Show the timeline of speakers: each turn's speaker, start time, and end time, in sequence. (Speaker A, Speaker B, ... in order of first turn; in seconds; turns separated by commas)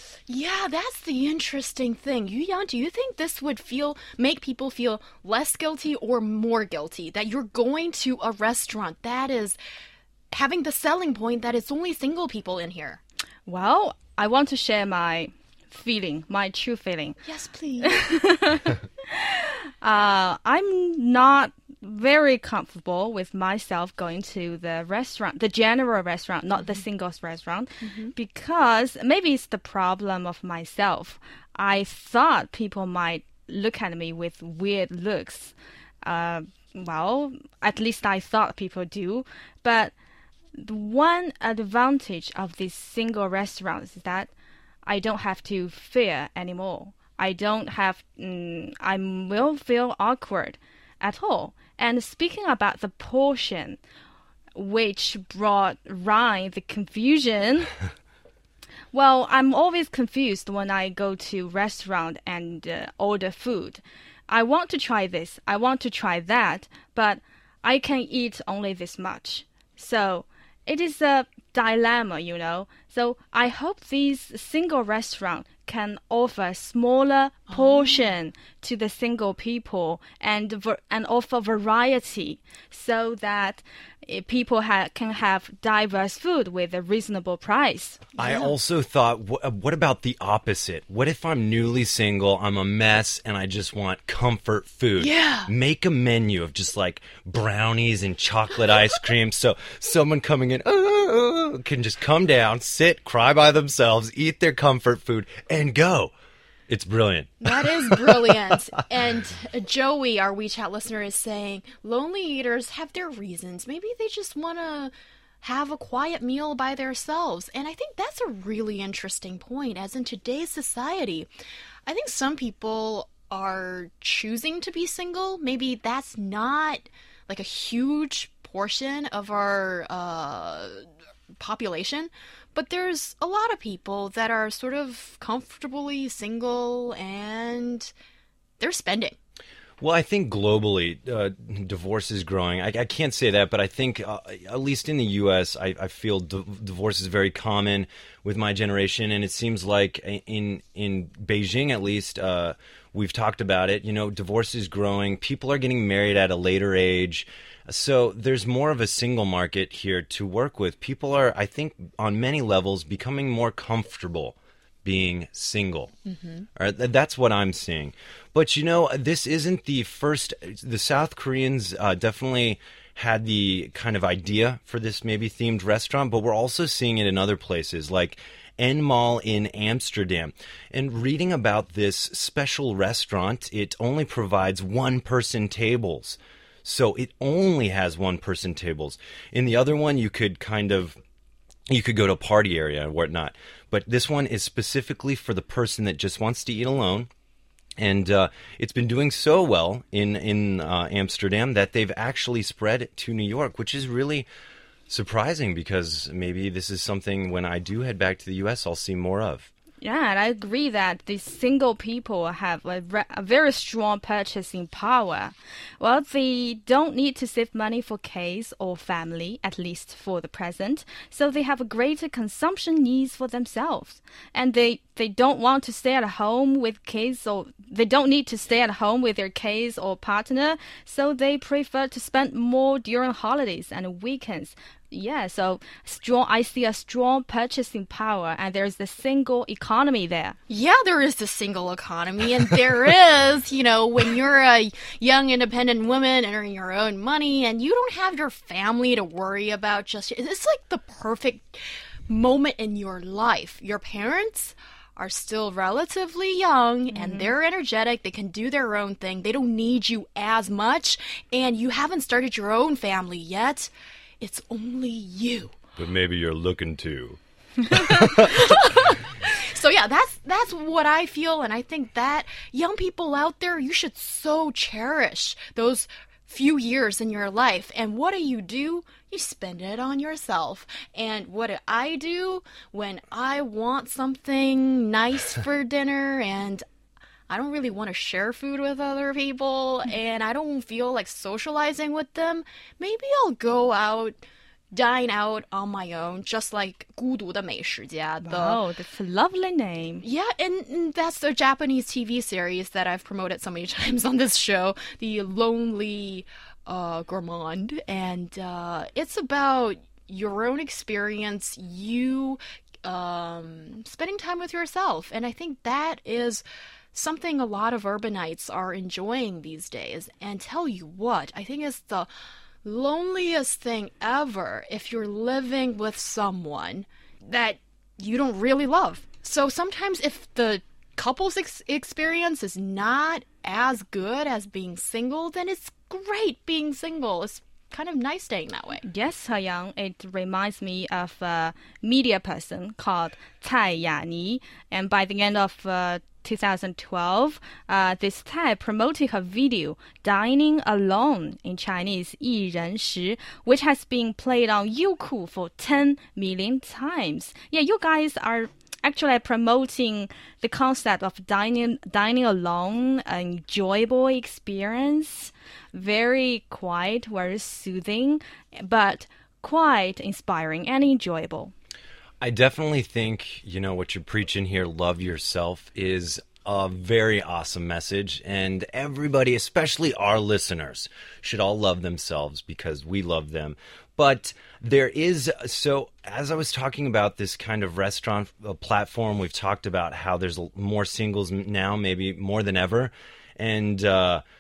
Speaker A: 0.3-9.6, Speaker A: 10.3-13.0, Speaker B: 13.5-17.2, Speaker A: 17.2-18.1, Speaker B: 17.8-40.0, Speaker A: 26.6-26.8, Speaker A: 27.8-28.1, Speaker B: 40.5-44.3, Speaker B: 44.9-53.8, Speaker B: 54.5-57.7, Speaker B: 58.9-88.0, Speaker A: 77.5-78.1, Speaker A: 88.2-88.5, Speaker C: 88.2-106.1, Speaker A: 95.0-95.5, Speaker C: 106.7-108.4, Speaker A: 107.4-121.3, Speaker A: 121.9-130.8, Speaker A: 131.4-137.9, Speaker A: 138.6-139.2, Speaker C: 139.8-165.9, Speaker A: 166.1-166.5, Speaker C: 166.6-191.0, Speaker C: 191.7-197.1, Speaker C: 197.8-204.3, Speaker C: 204.9-209.5, Speaker B: 209.8-240.4, Speaker A: 240.5-265.6, Speaker B: 256.9-257.3, Speaker C: 265.8-268.7, Speaker A: 268.2-286.6, Speaker A: 287.3-294.2, Speaker A: 294.7-298.6, Speaker B: 298.2-300.0, Speaker A: 300.0-322.1, Speaker A: 322.6-338.8, Speaker B: 338.8-371.5, Speaker C: 372.2-394.2